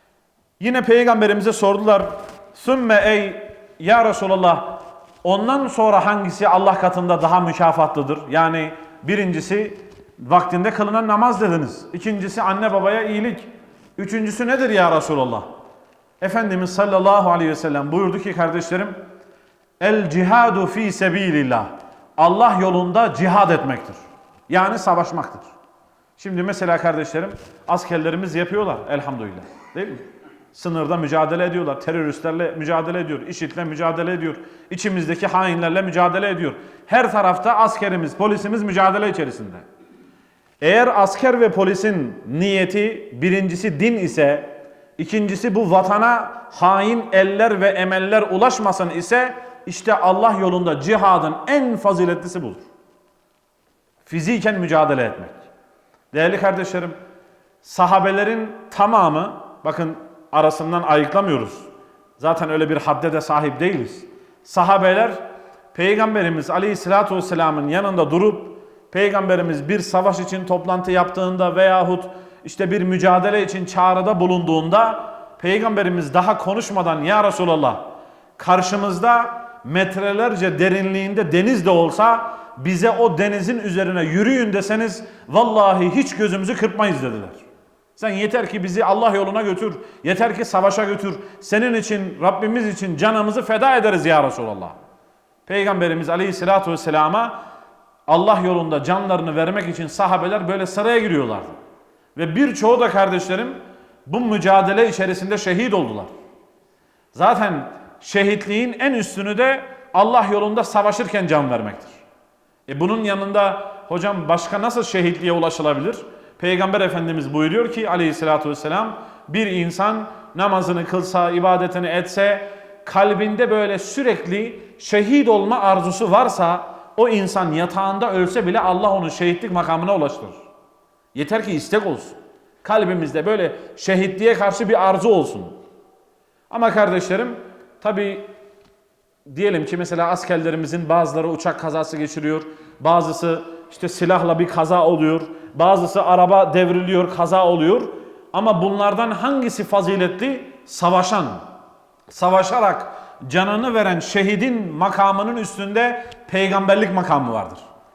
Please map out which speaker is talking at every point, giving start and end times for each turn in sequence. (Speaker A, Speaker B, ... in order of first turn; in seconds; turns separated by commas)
Speaker A: 0.6-15.5, Speaker A: 16.2-19.0, Speaker A: 19.8-24.0, Speaker A: 24.5-25.5, Speaker A: 26.2-39.6, Speaker A: 40.6-52.6, Speaker A: 54.0-55.4, Speaker A: 56.1-57.0, Speaker A: 57.6-61.7, Speaker A: 62.2-65.2, Speaker A: 65.7-87.4, Speaker A: 88.0-94.8, Speaker A: 95.5-97.4, Speaker A: 98.1-101.6, Speaker A: 102.2-106.1, Speaker A: 107.1-112.0, Speaker A: 112.7-130.4, Speaker A: 131.2-135.6, Speaker A: 136.5-138.3, Speaker A: 139.3-151.4, Speaker A: 152.1-157.7